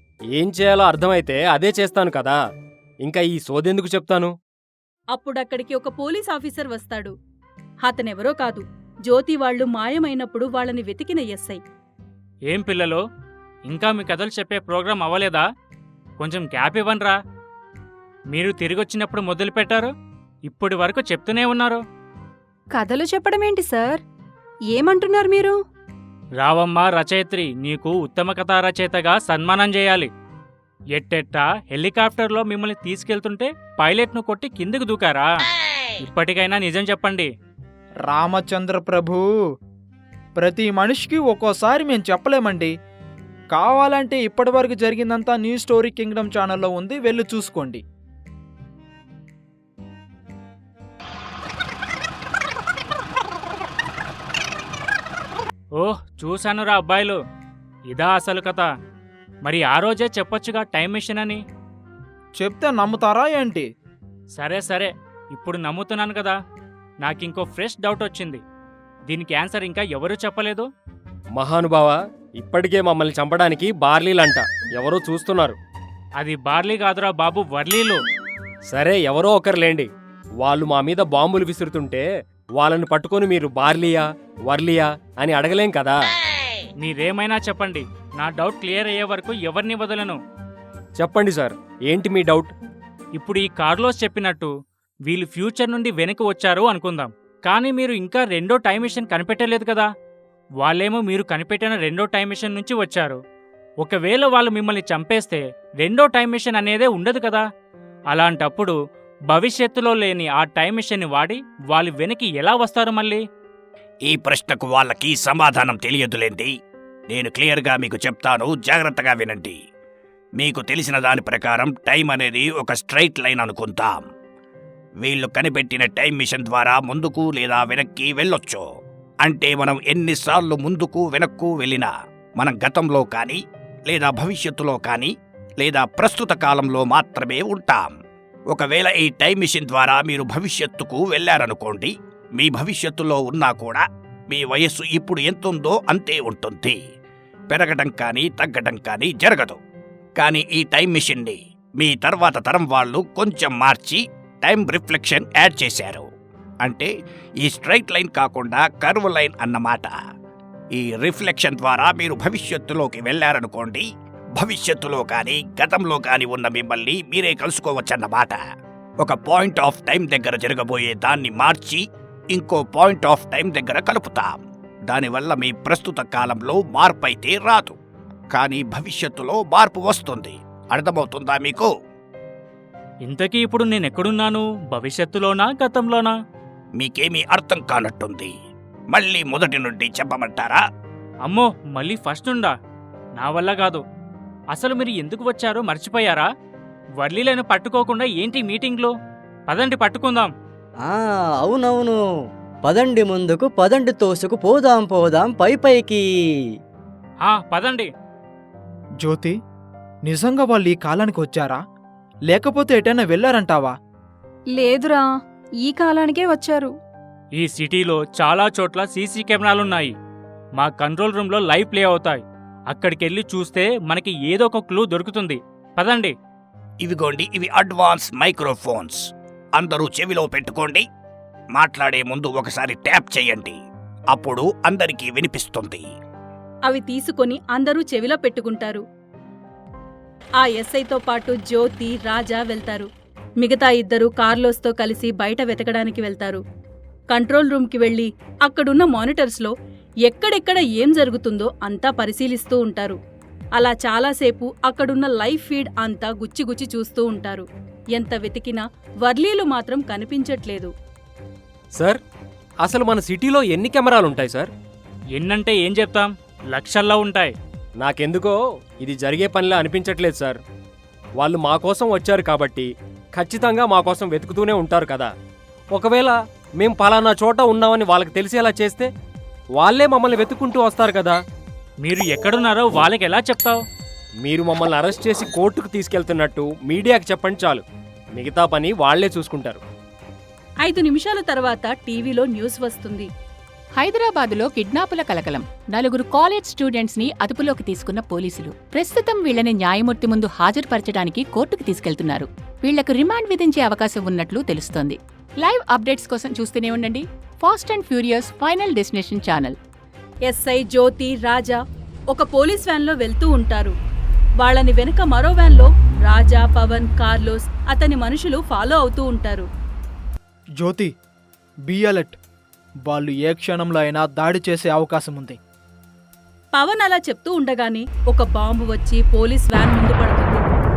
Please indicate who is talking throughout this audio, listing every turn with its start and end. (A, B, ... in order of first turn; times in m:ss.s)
0:00.4-0:02.4 A
0:03.0-0:04.3 A
0:05.1-0:07.1 B
0:07.8-0:11.6 B
0:12.5-0:13.0 C
0:13.7-0:15.4 C
0:16.2-0:17.2 C
0:18.3-0:19.9 C
0:20.5-0:21.8 C
0:22.8-0:24.0 D
0:24.7-0:25.6 D
0:26.4-0:30.1 C
0:31.0-0:35.3 C
0:36.0-0:37.3 C
0:38.1-0:39.2 E
0:40.4-0:42.7 E
0:43.5-0:47.8 E
0:55.8-0:57.2 C
0:57.9-0:58.7 C
0:59.5-1:01.4 C
1:02.4-1:03.7 E
1:04.4-1:06.4 C
1:07.0-1:08.4 C
1:09.1-1:10.7 C
1:11.4-1:15.6 A
1:16.2-1:18.0 C
1:18.7-1:19.9 A
1:20.4-1:22.1 A
1:22.6-1:26.0 A
1:26.8-1:30.2 C
1:31.0-1:32.5 A
1:33.2-1:34.5 C
1:35.1-1:39.9 C
1:40.6-1:43.2 C
1:43.8-1:47.4 C
1:48.1-1:48.8 C
1:49.3-1:53.2 C
1:54.1-1:56.5 F
1:57.1-1:59.6 F
2:00.4-2:04.0 F
2:05.0-2:08.6 F
2:09.2-2:17.9 F
2:18.5-2:26.8 F
2:27.5-2:29.6 F
2:30.2-2:36.1 F
2:36.6-2:36.9 F
2:37.4-2:40.0 F
2:40.7-2:48.4 F
2:49.0-2:57.8 F
2:58.3-3:01.7 F
3:03.0-3:06.1 C
3:06.8-3:08.3 F
3:08.9-3:10.6 F
3:11.3-3:12.6 C
3:13.2-3:13.8 C
3:14.5-3:16.3 C
3:17.0-3:18.9 C
3:19.5-3:20.3 C
3:20.8-3:22.0 G
3:22.6-3:26.0 G
3:27.2-3:27.9 C
3:29.0-3:29.4 E
3:30.0-3:31.6 E
3:32.3-3:33.8 E
3:34.6-3:35.1 D
3:35.6-3:36.7 D
3:37.4-3:39.9 C
3:40.6-3:46.1 C
3:46.8-3:49.0 F
3:49.6-3:50.8 F
3:51.6-3:53.6 F
3:54.1-3:55.8 F
3:56.7-3:58.8 B
4:00.4-4:02.9 B
4:03.4-4:06.4 B
4:07.1-4:09.5 B
4:10.1-4:13.0 B
4:13.6-4:20.7 B
4:22.6-4:24.5 A
4:25.2-4:27.4 C
4:27.8-4:30.4 A
4:31.2-4:35.1 A
4:35.7-4:38.9 A
4:39.6-4:41.2 A
4:41.8-4:43.6 C
4:44.3-4:47.6 A
4:48.2-4:49.6 A
4:50.6-4:53.1 B
4:53.8-5:09.6 H
5:10.3-5:11.6 B
5:12.1-5:13.7 B
5:14.4-5:19.5 B
5:20.6-5:20.9 E
5:21.7-5:22.2 E
5:22.9-5:25.4 E
5:26.6-5:30.4 B